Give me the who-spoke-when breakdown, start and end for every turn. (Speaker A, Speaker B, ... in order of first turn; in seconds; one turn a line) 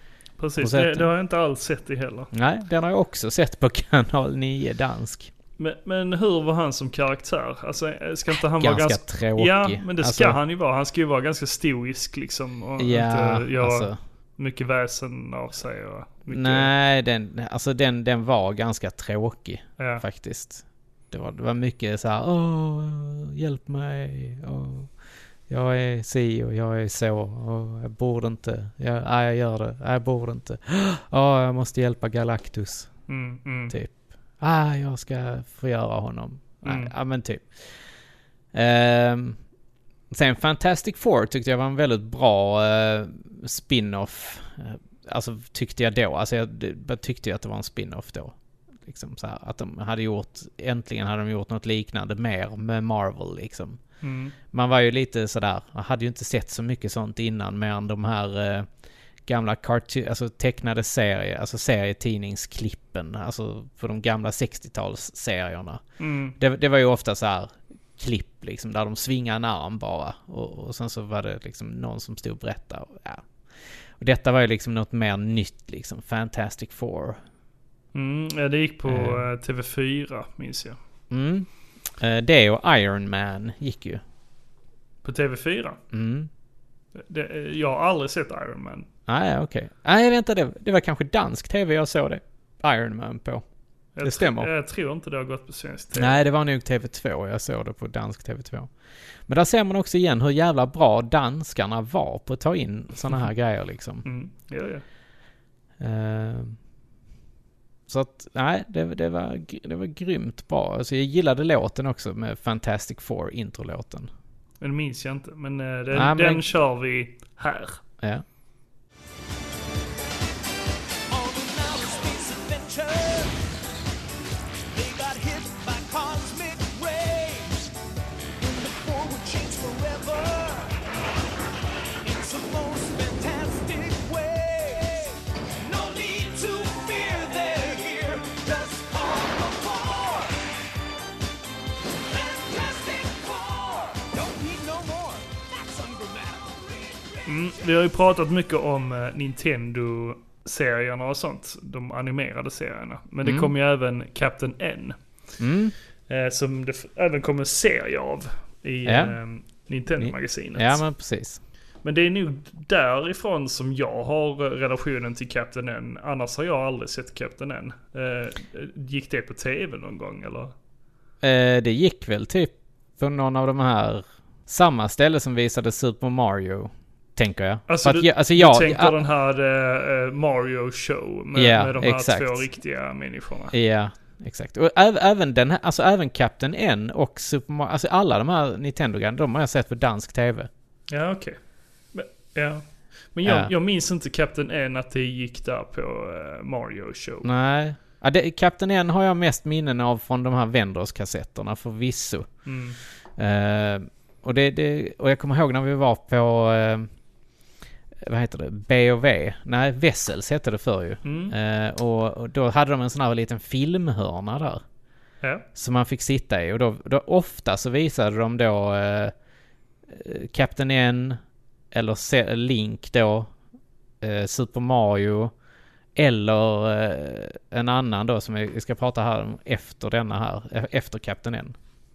Speaker A: 0.4-2.3
Speaker B: 0.6-1.1
Speaker B: 2.3-5.3
Speaker A: 5.6-16.7
Speaker B: 8.4-10.4
Speaker B: 12.8-14.0
Speaker B: 16.3-24.9
Speaker A: 19.8-20.0
Speaker B: 25.5-32.9
Speaker A: 33.1-33.8
Speaker B: 33.7-37.5
Speaker A: 36.6-36.9
Speaker B: 38.5-39.4
Speaker B: 40.1-53.8
Speaker A: 54.0-54.3
Speaker B: 54.5-58.7
Speaker B: 59.3-65.8
Speaker A: 66.0-66.4
Speaker B: 66.4-73.3
Speaker B: 74.0-77.2
Speaker A: 77.9-80.8
Speaker B: 78.9-79.3
Speaker B: 81.1-84.0
Speaker A: 85.0-85.8
Speaker B: 85.9-86.3
Speaker A: 87.0-88.9
Speaker B: 89.1-93.4
Speaker A: 94.0-96.2
Speaker B: 94.0-94.5
Speaker B: 95.9-98.7
Speaker B: 99.3-104.0
Speaker A: 104.0-104.8
Speaker B: 105.8-106.6
Speaker B: 107.9-114.1
Speaker A: 114.6-117.8
Speaker B: 115.9-116.4
Speaker C: 121.1-123.4
Speaker C: 124.7-127.7
Speaker C: 128.4-130.8
Speaker C: 132.0-140.6
Speaker C: 141.9-147.5
Speaker A: 147.3-155.0
Speaker B: 153.2-153.5
Speaker B: 155.4-155.7
Speaker A: 156.1-160.8
Speaker B: 158.8-159.2
Speaker B: 160.0-161.4
Speaker A: 161.8-170.5
Speaker B: 171.2-179.0
Speaker A: 177.7-183.5
Speaker B: 181.3-182.5
Speaker B: 183.5-190.5
Speaker A: 190.9-191.4
Speaker A: 191.9-197.3
Speaker B: 193.2-193.5
Speaker B: 197.2-202.3
Speaker A: 202.5-202.8
Speaker B: 203.2-206.9
Speaker B: 208.0-214.6
Speaker A: 211.1-211.3
Speaker B: 215.6-219.1
Speaker B: 219.9-221.2
Speaker B: 221.7-223.3
Speaker B: 224.0-225.3
Speaker B: 226.0-231.6